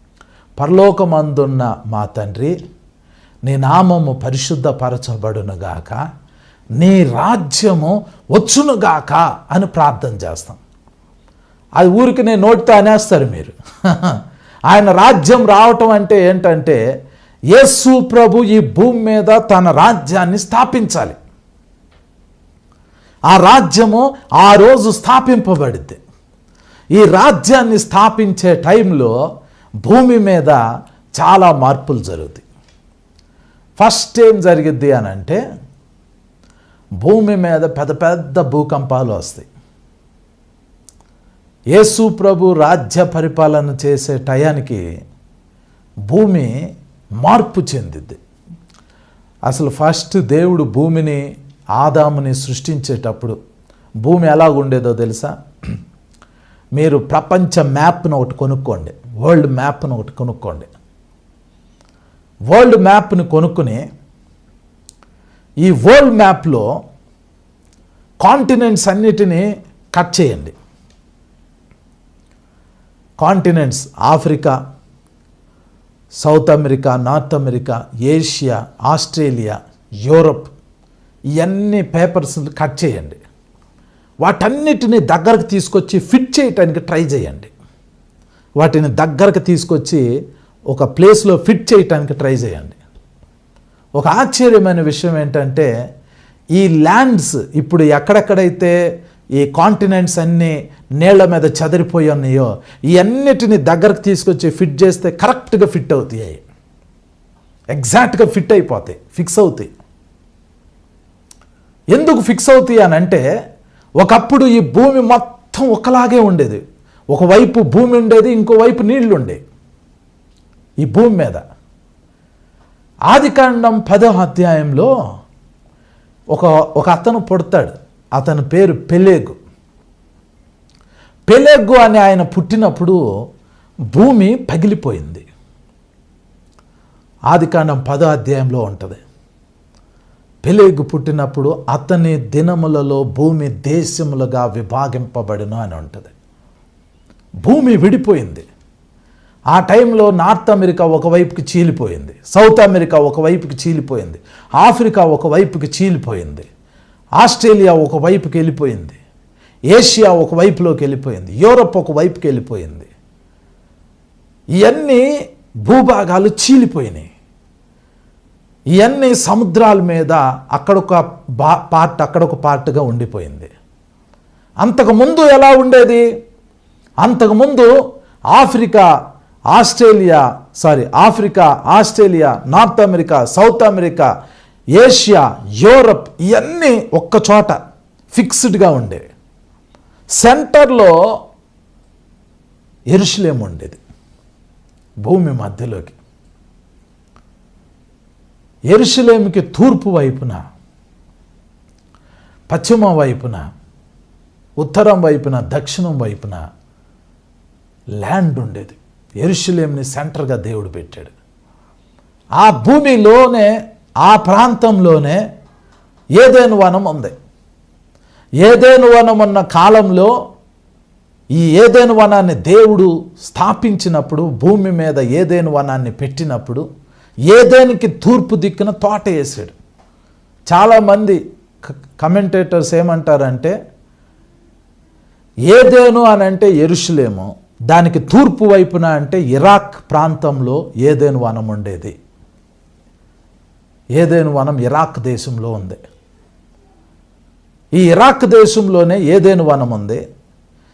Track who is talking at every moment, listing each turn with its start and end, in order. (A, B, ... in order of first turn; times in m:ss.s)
0:00.6-0:02.5 A
0:03.4-0:06.0 A
0:06.8-0:10.6 A
0:11.8-0:14.2 A
0:14.7-0:16.8 A
0:17.5-0:21.2 A
0:23.3-0:26.0 A
0:26.9-0:29.1 A
0:29.8-0:30.6 A
0:31.2-0:32.4 A
0:33.8-0:35.4 A
0:37.0-0:39.4 A
0:41.7-0:44.8 A
0:46.1-0:46.5 A
0:47.2-0:48.2 A
0:49.5-0:51.2 A
0:51.8-0:53.4 A
0:54.0-0:55.3 A
0:56.7-1:00.7 A
1:02.5-1:03.8 A
1:05.6-1:06.6 A
1:08.2-1:10.5 A
1:13.2-1:14.5 A
1:16.2-1:20.5 A
1:21.4-1:23.2 A
1:24.2-1:27.5 A
1:28.6-1:30.0 A
1:30.7-1:32.8 A
1:34.0-1:35.7 A
1:36.5-1:38.7 A
1:39.4-1:46.4 A
1:47.7-1:49.7 A
1:51.9-1:53.2 A
1:54.0-1:56.6 A
1:57.1-1:59.4 A
2:00.8-2:01.4 A
2:03.1-2:04.9 A
2:06.3-2:09.4 A
2:11.3-2:13.0 A
2:13.9-2:15.2 A
2:17.3-2:19.0 A
2:20.4-2:26.1 A
2:27.4-2:28.4 A
2:29.5-2:36.4 A
2:37.2-2:39.0 A
2:39.7-2:42.9 A
2:44.6-2:45.0 A
2:45.6-2:47.1 A
2:48.8-2:53.5 A
2:54.6-2:56.0 A
2:57.0-2:57.7 A
2:58.3-2:58.8 A
2:59.5-3:04.1 A
3:04.8-3:07.6 A
3:08.1-3:09.0 A
3:10.2-3:10.9 A
3:12.9-3:13.8 A
3:15.0-3:16.0 A
3:18.7-3:20.4 A
3:22.5-3:23.4 A
3:24.6-3:26.4 A
3:28.0-3:31.1 A
3:32.4-3:33.5 A
3:34.0-3:35.2 A
3:36.2-3:37.1 A
3:38.4-3:40.1 A
3:41.3-3:46.6 A
3:47.3-3:49.5 A
3:50.5-3:51.2 A
3:52.0-3:53.5 A
3:55.5-4:01.9 A
4:04.0-4:05.8 A
4:07.8-4:10.0 A